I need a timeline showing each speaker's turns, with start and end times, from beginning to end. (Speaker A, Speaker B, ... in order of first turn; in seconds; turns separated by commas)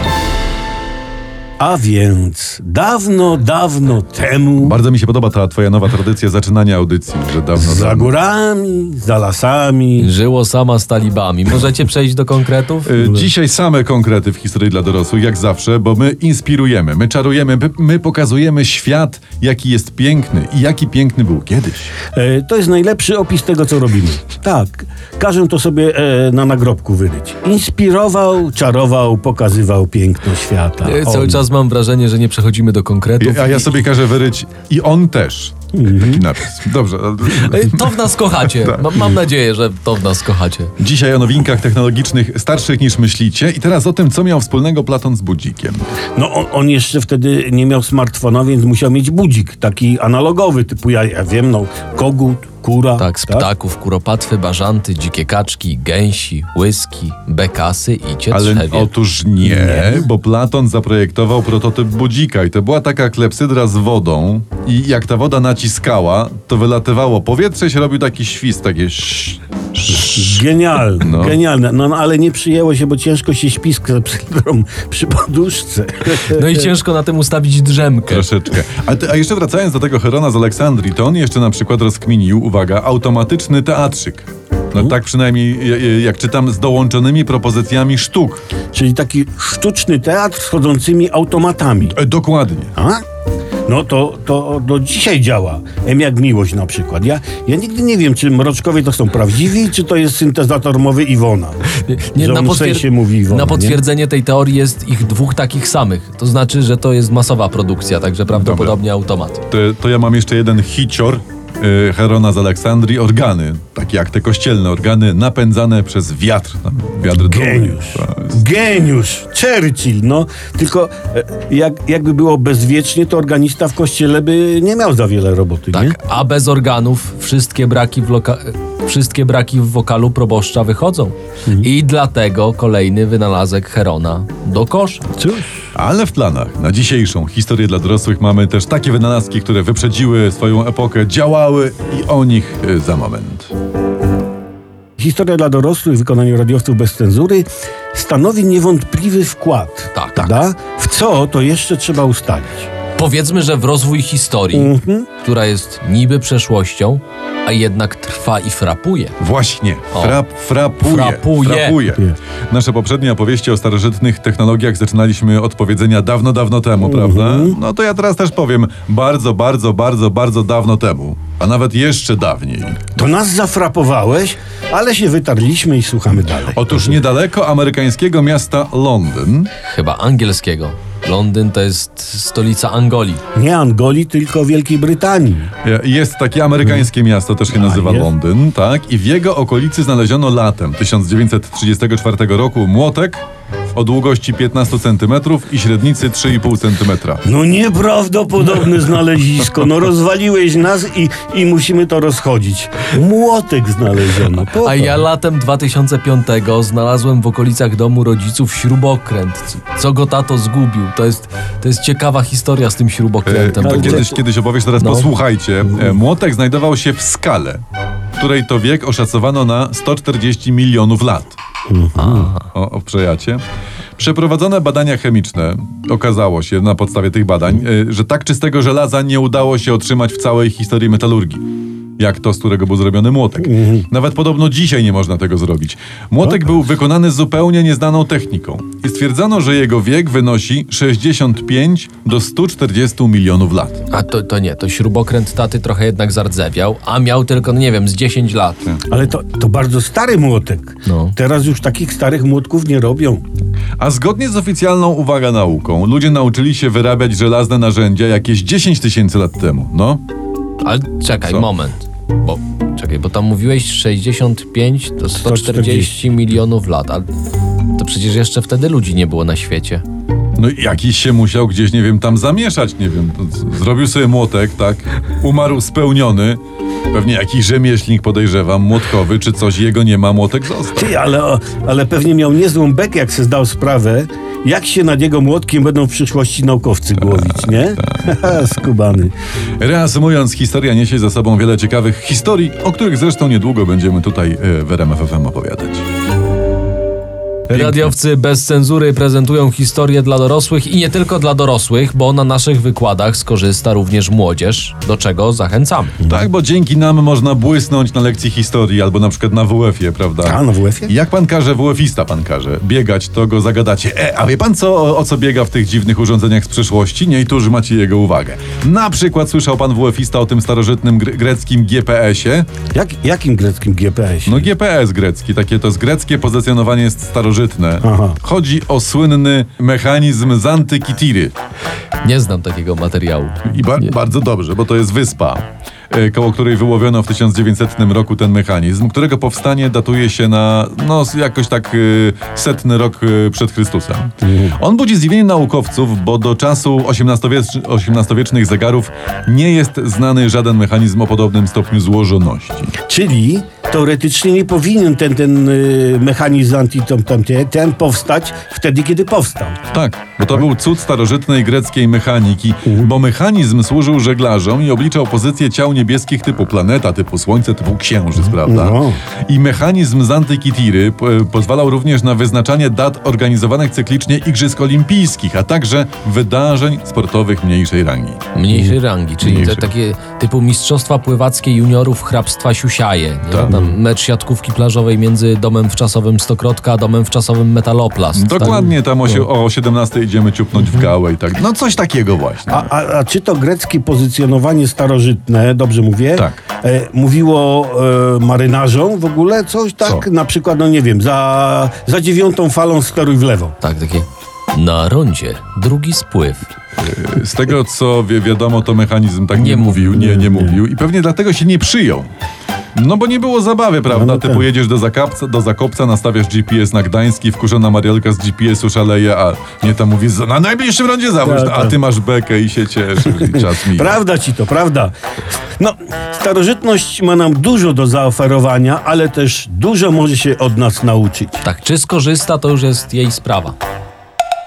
Speaker A: 1.6-4.8, Speaker B: 4.6-8.1, Speaker A: 7.6-10.1, Speaker C: 10.0-12.9, Speaker B: 12.8-21.9, Speaker A: 13.0-13.3, Speaker A: 22.1-31.4, Speaker C: 30.8-33.7, Speaker B: 33.2-39.1, Speaker A: 35.8-36.2, Speaker C: 37.4-40.7, Speaker B: 40.8-45.9, Speaker A: 46.2-53.5, Speaker C: 53.0-58.9, Speaker B: 58.3-70.5, Speaker A: 59.4-60.0, Speaker A: 69.9-76.7, Speaker B: 71.0-71.4, Speaker C: 76.2-78.3, Speaker B: 78.1-88.4, Speaker A: 88.7-92.0, Speaker B: 91.8-92.7, Speaker A: 92.8-93.0, Speaker A: 93.7-101.6, Speaker C: 101.7-109.4, Speaker A: 102.2-103.8, Speaker B: 108.3-108.8, Speaker B: 109.5-118.4, Speaker A: 117.2-126.0, Speaker C: 125.7-135.1, Speaker A: 135.2-135.7, Speaker B: 135.8-143.5, Speaker A: 145.0-152.7, Speaker C: 149.9-150.4, Speaker C: 153.0-159.2, Speaker A: 154.5-155.1, Speaker B: 159.2-172.9, Speaker C: 159.9-160.2, Speaker C: 160.8-161.8, Speaker A: 166.8-167.6, Speaker A: 173.0-177.0, Speaker B: 176.6-179.5, Speaker C: 179.6-183.2, Speaker A: 183.3-185.5, Speaker B: 185.6-193.2, Speaker A: 187.5-188.1, Speaker B: 193.8-197.2, Speaker A: 197.2-205.0, Speaker C: 204.6-214.1, Speaker B: 213.2-217.6, Speaker A: 213.6-214.2, Speaker C: 214.8-215.1, Speaker B: 218.2-221.3, Speaker A: 221.7-222.3, Speaker C: 222.0-222.4, Speaker B: 222.3-223.4, Speaker B: 224.0-231.4, Speaker B: 232.0-243.8, Speaker A: 233.4-233.9, Speaker C: 243.9-248.6, Speaker A: 248.9-253.2, Speaker C: 250.8-251.2, Speaker B: 253.8-260.0, Speaker C: 260.6-267.1, Speaker B: 261.2-261.5, Speaker A: 265.2-266.1, Speaker C: 267.8-269.8, Speaker B: 270.4-276.4, Speaker B: 276.9-280.9, Speaker A: 280.8-289.1, Speaker B: 287.2-288.1, Speaker B: 289.6-295.9, Speaker C: 297.5-306.0, Speaker B: 297.5-297.9, Speaker A: 306.0-306.3, Speaker B: 306.1-322.5, Speaker A: 310.2-310.9, Speaker A: 322.7-324.5, Speaker B: 324.3-331.3, Speaker A: 327.8-328.2, Speaker C: 332.0-333.8, Speaker B: 333.4-352.7, Speaker A: 344.2-344.6, Speaker A: 352.9-359.6, Speaker B: 359.7-378.2, Speaker A: 362.6-362.9, Speaker A: 368.4-369.0, Speaker C: 378.3-388.7, Speaker B: 379.2-379.7, Speaker B: 383.3-383.6, Speaker B: 388.1-392.7, Speaker A: 392.5-403.6, Speaker C: 403.6-406.5, Speaker B: 406.8-412.1, Speaker C: 409.3-410.0, Speaker A: 409.9-410.6, Speaker B: 412.8-424.0, Speaker A: 413.9-414.5, Speaker A: 421.2-421.8, Speaker A: 423.2-424.9, Speaker A: 425.6-431.4, Speaker C: 431.4-433.6